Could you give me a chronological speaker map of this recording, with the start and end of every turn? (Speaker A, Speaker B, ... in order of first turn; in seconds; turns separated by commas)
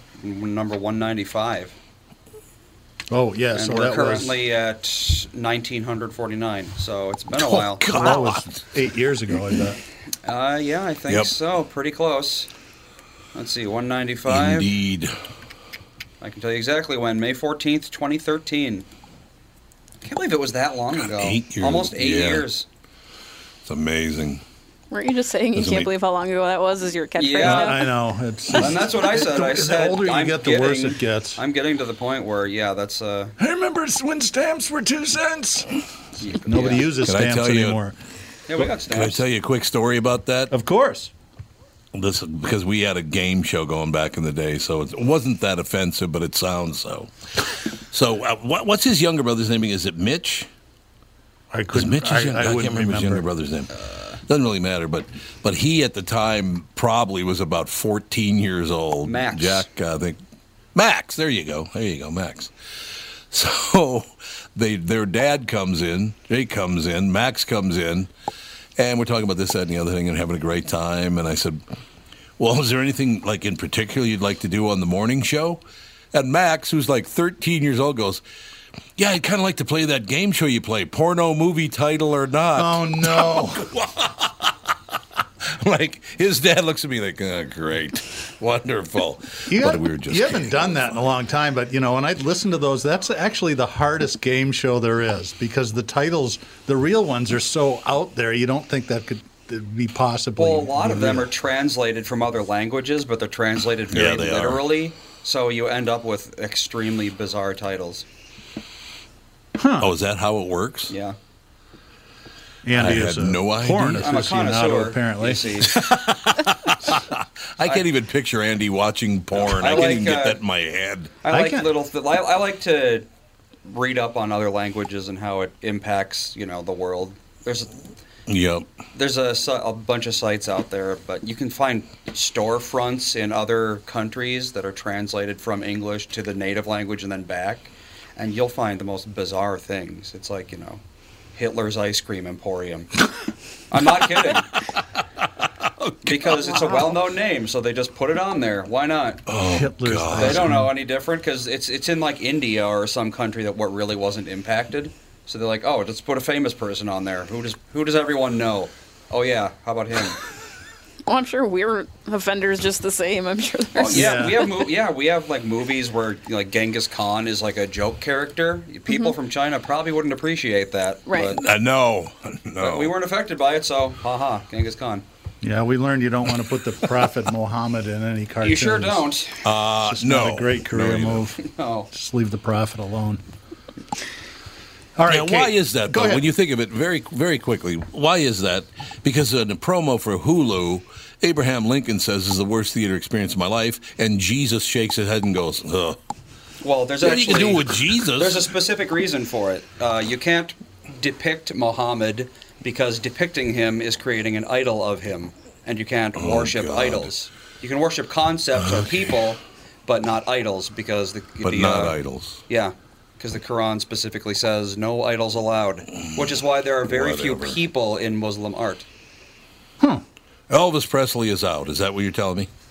Speaker A: 0.2-1.8, Speaker B: 3.1-4.4, Speaker A: 3.5-7.9, Speaker B: 7.4-9.8, Speaker C: 7.9-8.4, Speaker A: 10.2-12.5, Speaker A: 13.3-14.7, Speaker D: 14.3-15.1, Speaker A: 16.2-18.9, Speaker A: 20.0-22.7, Speaker D: 20.9-22.5, Speaker D: 23.6-24.4, Speaker C: 24.9-27.9, Speaker D: 25.5-25.9, Speaker A: 27.2-27.8, Speaker B: 27.4-31.4, Speaker A: 28.5-33.4, Speaker B: 33.4-35.7, Speaker A: 36.2-36.9, Speaker B: 36.4-38.0, Speaker D: 37.0-37.8, Speaker A: 38.5-39.2, Speaker D: 38.8-40.5, Speaker B: 40.5-41.1, Speaker D: 41.9-50.5, Speaker B: 51.5-53.3, Speaker D: 51.7-60.2, Speaker A: 59.0-59.7, Speaker D: 60.8-62.5, Speaker D: 63.3-68.1, Speaker D: 68.8-71.6, Speaker D: 72.4-75.6, Speaker D: 76.1-78.2, Speaker D: 79.0-90.9, Speaker B: 82.6-83.7, Speaker B: 89.5-101.3, Speaker A: 100.4-108.0, Speaker D: 103.9-104.6, Speaker B: 109.6-109.9, Speaker D: 109.8-110.9, Speaker A: 110.9-111.2, Speaker B: 112.6-115.5, Speaker D: 112.8-114.1, Speaker A: 114.0-115.8, Speaker D: 115.7-121.2, Speaker A: 119.3-120.4, Speaker A: 121.2-123.1, Speaker B: 121.3-121.7, Speaker A: 123.6-127.7, Speaker D: 128.3-128.7, Speaker A: 128.9-140.8, Speaker A: 141.3-142.9, Speaker A: 143.7-144.5, Speaker A: 146.0-149.2, Speaker D: 149.3-150.6, Speaker B: 149.4-150.7, Speaker A: 150.1-160.2, Speaker C: 161.1-164.6, Speaker A: 163.8-171.4, Speaker B: 163.9-164.5, Speaker C: 171.1-171.4, Speaker D: 171.3-172.9, Speaker A: 172.6-175.1, Speaker B: 175.4-179.1, Speaker A: 178.4-179.5, Speaker D: 179.4-181.4, Speaker B: 179.8-183.2, Speaker A: 181.4-181.9, Speaker B: 185.0-186.3, Speaker D: 185.1-196.0, Speaker A: 196.6-218.9, Speaker D: 197.0-198.5, Speaker D: 206.2-207.1, Speaker D: 208.6-209.1, Speaker D: 211.4-212.4, Speaker D: 216.8-217.6, Speaker D: 220.5-222.5